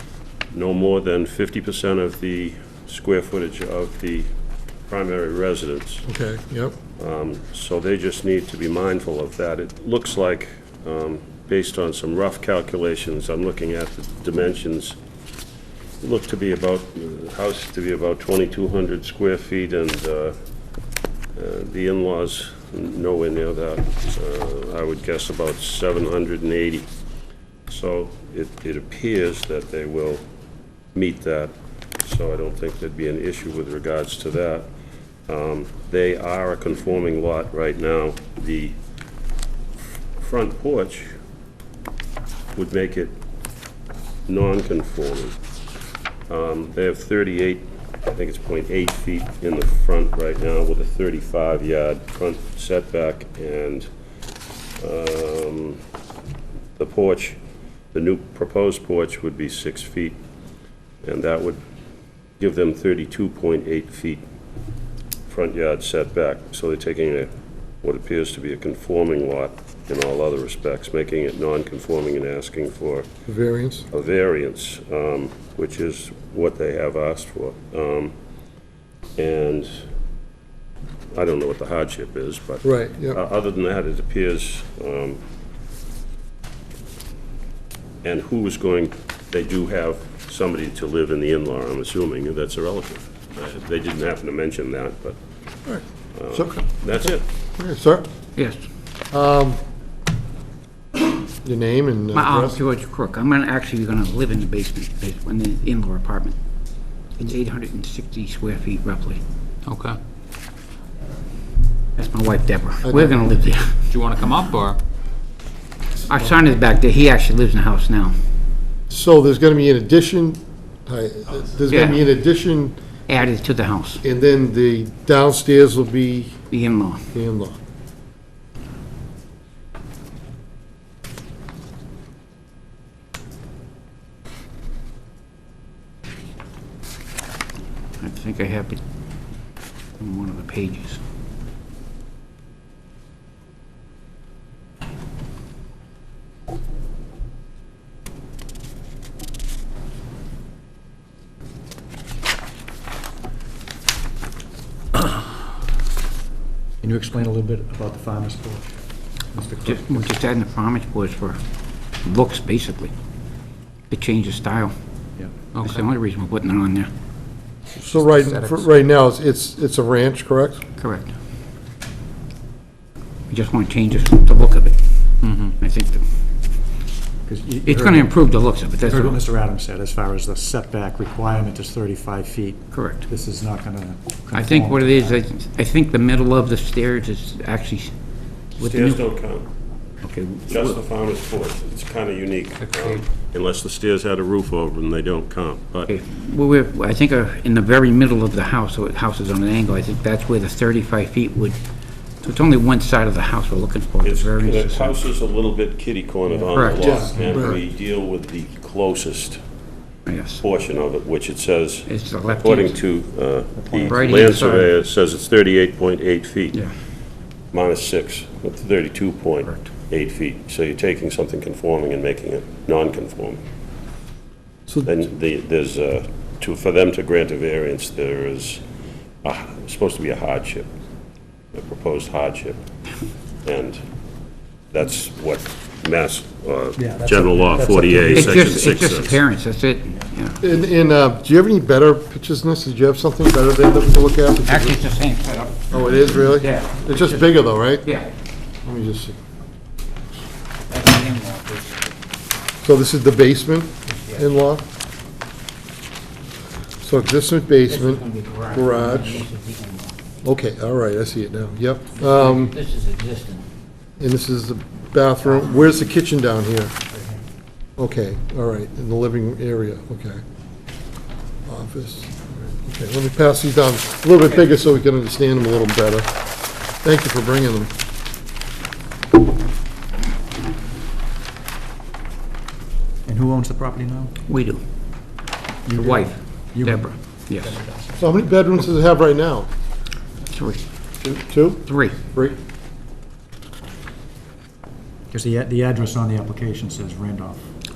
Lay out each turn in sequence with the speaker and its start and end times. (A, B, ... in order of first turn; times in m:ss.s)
0:00.5-0:04.3 A
0:04.9-0:06.0 A
0:06.1-0:06.7 B
0:07.0-0:15.0 A
0:16.0-0:20.4 A
0:21.4-0:26.9 A
0:27.7-0:30.2 A
0:30.9-0:31.5 A
0:32.0-0:34.7 A
0:35.3-0:38.8 A
0:40.2-0:41.1 A
0:42.5-0:43.1 A
0:44.3-0:45.4 A
0:46.3-0:53.9 A
0:54.8-0:55.8 A
0:56.8-0:57.4 A
0:57.9-1:00.2 A
1:01.0-1:01.6 A
1:02.4-1:04.2 A
1:05.3-1:07.3 A
1:07.8-1:13.1 A
1:13.2-1:13.9 B
1:13.9-1:18.1 A
1:19.2-1:19.9 A
1:21.1-1:25.2 A
1:22.6-1:23.2 B
1:28.0-1:35.2 A
1:35.7-1:37.0 B
1:36.1-1:37.2 A
1:37.6-1:38.0 B
1:38.4-1:38.6 C
1:39.1-1:39.6 B
1:41.4-1:42.6 B
1:42.1-1:46.4 C
1:47.2-1:49.2 C
1:49.7-1:50.0 D
1:52.0-1:53.8 C
1:52.9-1:53.2 B
1:53.9-1:54.8 D
1:56.1-1:58.2 C
1:58.9-2:02.8 B
2:01.7-2:02.0 C
2:03.1-2:04.0 C
2:04.0-2:06.4 B
2:06.5-2:07.0 C
2:07.1-2:07.6 B
2:18.0-2:18.8 C
2:20.0-2:21.0 C
2:36.8-2:40.1 E
2:39.6-2:41.4 C
2:42.0-2:42.9 C
2:43.9-2:44.7 C
2:45.2-2:45.5 E
2:45.5-2:45.9 D
2:45.6-2:46.9 C
2:47.8-2:50.6 B
2:50.8-2:51.1 C
2:53.3-2:56.0 C
2:55.2-2:55.5 D
2:57.2-2:58.2 E
2:57.7-2:59.2 C
2:58.8-3:05.2 E
3:02.7-3:03.1 C
3:04.3-3:07.9 C
3:08.5-3:09.0 C
3:08.6-3:09.4 A
3:10.0-3:10.8 C
3:10.5-3:15.9 A
3:12.7-3:13.0 C
3:15.9-3:21.6 C
3:22.2-3:25.0 C
3:24.0-3:29.4 A
3:26.5-3:26.9 C
3:26.8-3:27.6 B
3:27.1-3:27.5 E
3:30.1-3:30.4 C
3:30.4-3:36.6 A
3:31.9-3:32.8 C
3:33.6-3:34.2 E
3:33.9-3:34.7 C
3:37.5-3:43.4 A
3:44.8-3:48.6 A
3:49.2-3:50.7 A
3:51.5-3:52.6 A
3:53.4-3:53.8 A
3:54.7-3:59.2 A
3:56.8-3:58.6 E
3:58.0-4:00.4 C
4:00.4-4:04.8 B
4:04.4-4:07.0 C
4:05.7-4:08.0 B
4:07.8-4:08.1 C
4:08.6-4:09.2 B
4:10.7-4:11.9 C
4:12.6-4:14.6 B
4:13.9-4:14.2 C
4:16.8-4:19.2 B
4:17.7-4:20.0 C
4:20.2-4:22.6 B
4:22.0-4:23.4 C
4:24.0-4:26.7 B
4:26.9-4:27.2 C
4:27.8-4:30.2 B
4:31.4-4:36.1 B
4:36.8-4:37.7 B
4:43.1-4:44.1 E
4:44.3-4:44.6 C
4:45.6-4:48.0 E
4:45.7-4:47.6 C
4:48.0-4:49.5 B
4:50.2-4:50.6 C
4:51.0-4:52.4 B
4:51.6-4:52.0 C
4:55.1-4:57.5 E